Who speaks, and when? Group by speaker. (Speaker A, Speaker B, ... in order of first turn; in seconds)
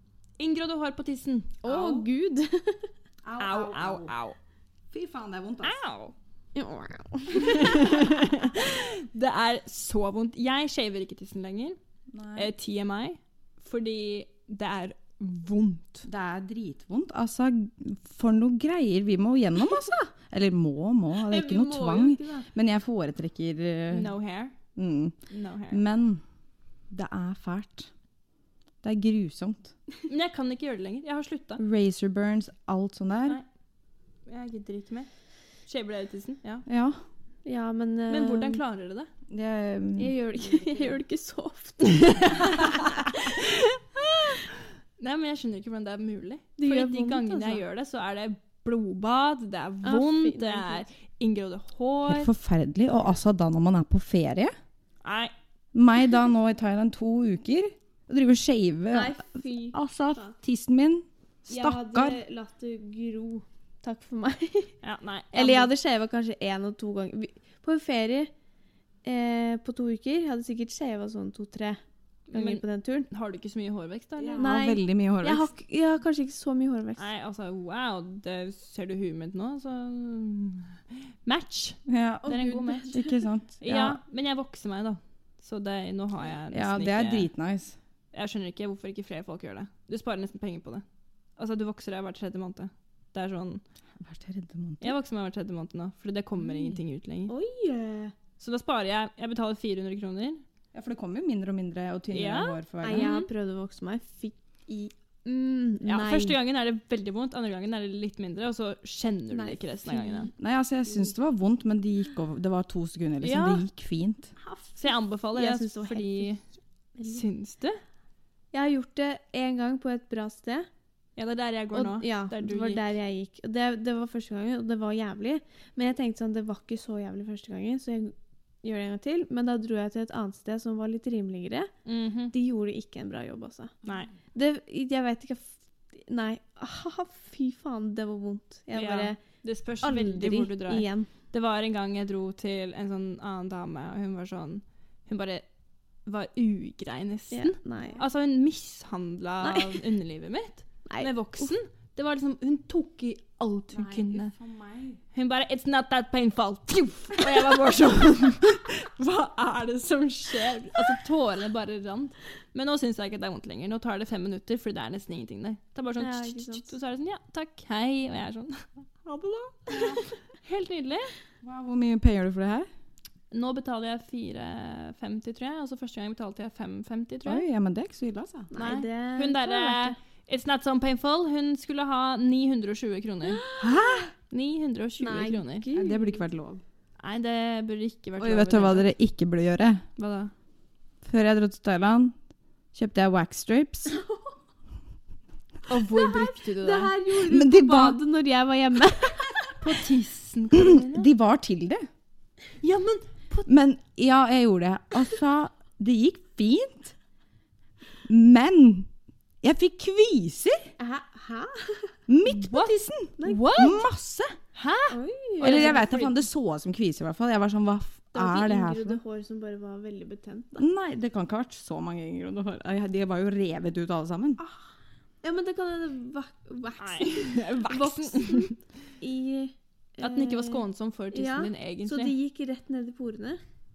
Speaker A: 0.4-1.6, 3.4-4.4, 5.6-6.2, 7.3-11.8, 12.4-16.1, 23.9-24.6, 25.3-25.8, 30.1-31.6, 34.3-35.1, 35.7-36.6, 38.1-39.1, 43.3-52.3, 55.0-55.3, 64.8-65.7, 72.3-74.6, 77.0-80.7, 81.2-83.0, 83.6-87.3, 88.1-90.8, 91.4-93.6, 94.8-97.3, 98.4-100.4, 102.1-103.3, 105.8-110.3, 113.2-113.6, 114.8-116.4, 117.0-117.8, 121.2-122.9, 131.8-132.3, 133.8-134.1, 138.7-145.5, 146.1-154.3, 155.1-171.1, 173.3-177.4, 178.6-183.4, 184.3-185.7, 187.0-188.9, 190.0-190.3, 195.7-196.9, 199.6-201.1, 202.6-203.5, 212.3-213.9, 214.5-216.2, 226.8-228.6, 230.0-232.2
Speaker B: 1.6-2.9, 6.5-8.1, 21.2-22.5, 37.5-38.6, 40.0-43.0, 46.6-47.6, 49.8-50.9, 58.9-60.4, 61.5-64.7, 65.3-68.3, 69.0-71.8, 72.3-73.1, 74.4-77.0, 82.2-83.2, 97.3-98.1, 102.8-106.4, 109.3-110.3, 114.4-116.3, 117.0-117.2, 118.5-120.7, 121.7-131.7, 132.3-133.7, 134.3-139.2, 139.8-141.1, 147.3-148.0, 149.4-149.8, 150.9-151.5, 166.0-166.7, 169.7-170.0, 178.5-180.0, 183.3-184.1, 185.0-186.2, 193.9-194.2, 195.9-199.6, 210.8-211.9, 213.2-213.5, 214.9-215.9, 218.1-220.7, 224.4-224.7, 225.2-230.6, 231.1-233.4
Speaker C: 1.6-2.1, 3.2-4.1, 4.9-5.8, 12.1-12.5, 16.1-24.1, 24.8-25.2, 25.7-26.2, 26.9-27.9, 28.8-29.7, 31.6-33.4, 36.7-37.0, 39.3-40.8, 52.1-54.5, 55.7-62.2, 74.2-75.5, 81.9-84.0, 86.5-87.8, 94.0-95.0, 96.5-96.8, 100.7-103.1, 110.4-114.3, 153.7-155.0, 171.4-172.7, 177.2-178.5, 183.6-184.1, 185.7-186.6, 188.2-189.8, 191.0-192.2, 192.7-194.0, 197.2-198.0, 200.5-201.9, 203.5-206.9, 208.1-208.9, 209.4-210.7, 212.1-214.3, 215.4-219.0, 220.6-224.4